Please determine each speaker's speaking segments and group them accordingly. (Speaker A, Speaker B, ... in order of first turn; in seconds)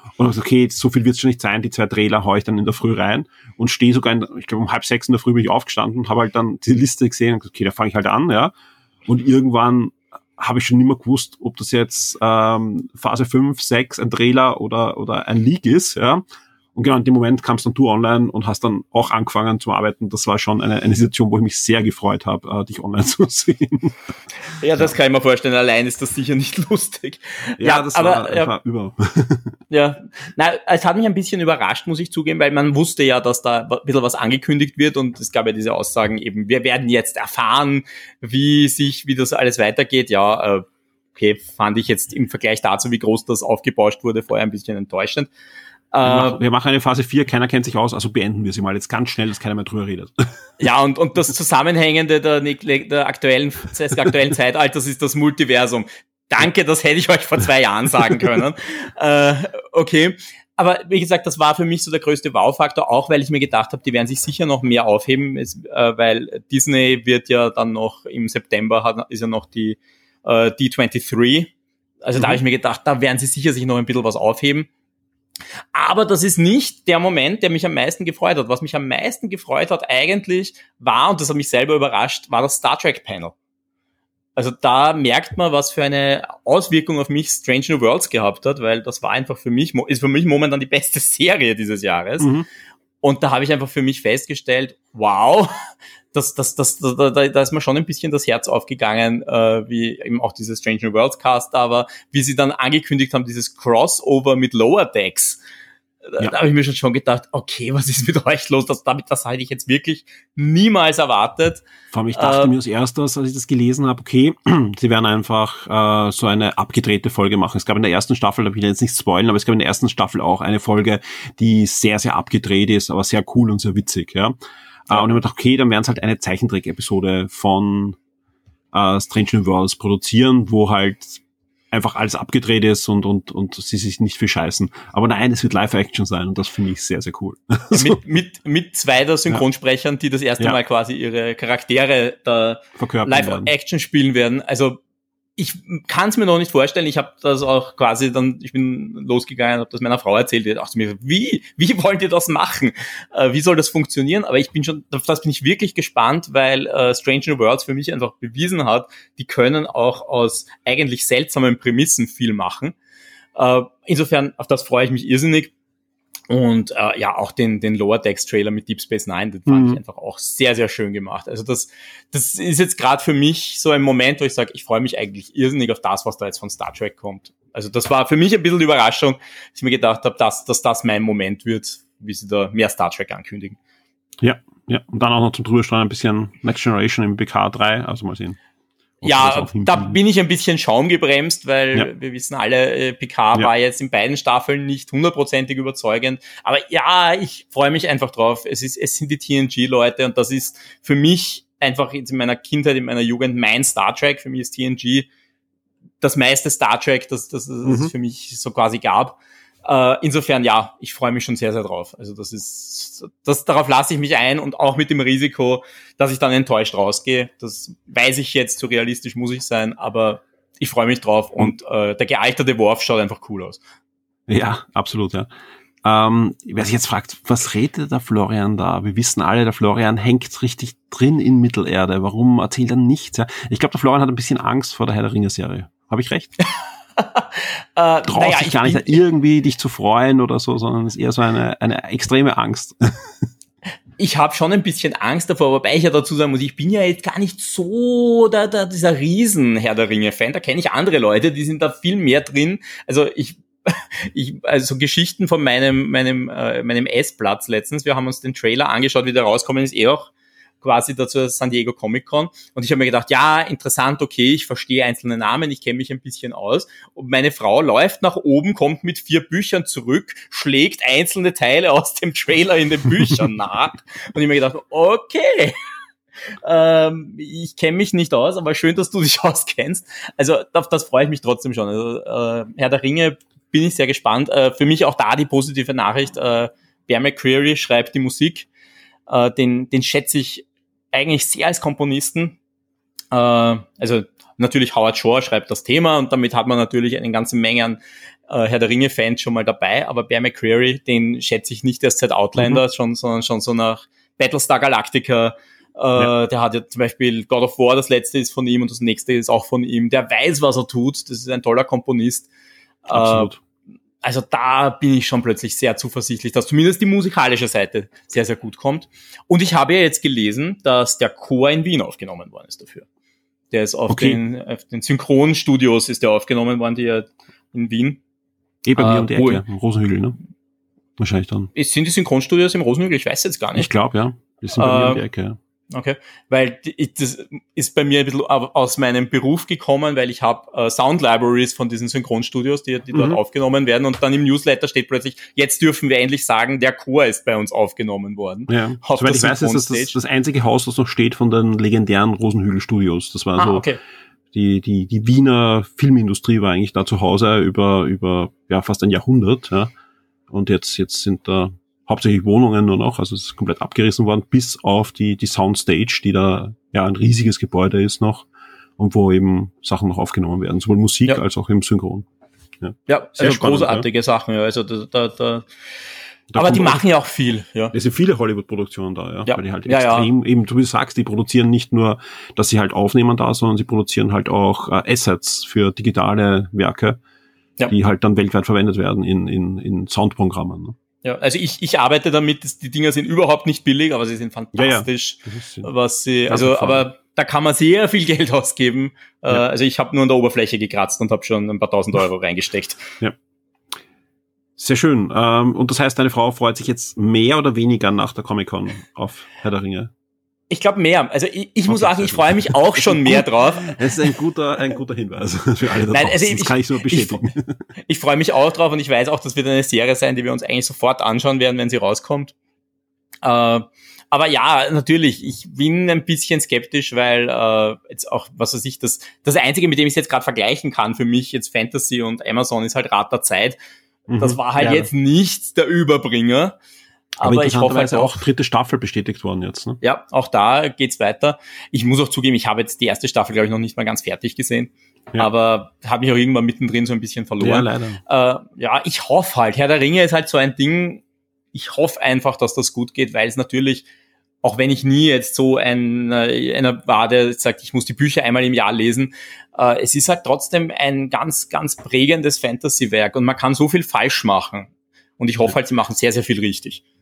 Speaker A: 0.1-8.5, 9.1-16.2, 16.7-24.1, 27.6-29.6, 46.0-50.3, 92.2-92.5, 111.9-124.3, 124.9-128.0, 128.7-138.0, 142.8-143.5, 169.5-169.8, 184.2-188.4, 189.0-190.0, 207.6-207.9, 224.3-225.3, 225.8-236.3, 238.1-242.8, 302.4-302.6, 312.9-313.4, 323.9-324.2, 328.6-330.2, 331.0-331.5, 333.6-335.4, 342.9-343.2, 348.5-353.7, 354.3-359.7, 360.3-372.1, 372.6-373.9, 376.3-376.8, 377.7-387.0, 387.7-390.8, 394.5-395.7, 396.3-396.9, 404.6-409.9, 411.7-417.6, 434.1-434.9, 437.2-439.8, 447.4-448.0
Speaker B: 24.6-28.5, 29.7-45.3, 45.9-46.4, 50.6-71.5, 72.0-74.7, 75.7-83.3, 84.3-92.3, 93.0-95.5, 96.1-105.4, 106.1-111.6, 112.1-112.5, 124.9-125.1, 137.7-144.8, 145.4-162.7, 163.3-165.5, 166.3-183.6, 189.0-205.1, 206.0-223.6, 237.0-239.0, 244.0-275.6, 276.4-288.5, 289.1-292.4, 293.1-312.3, 312.9-313.3, 314.0-322.9, 323.5-328.0, 328.8-329.4, 331.5-333.7, 334.6-335.0, 335.7-349.9, 353.4-353.8, 372.9-375.5, 376.4-377.7, 379.3-380.1, 391.0-402.8, 410.5-414.1, 415.9-417.2, 417.9-422.3, 423.2-433.6, 434.2-436.6, 437.2-438.2, 439.8-451.0, 451.5-453.9, 454.4-466.8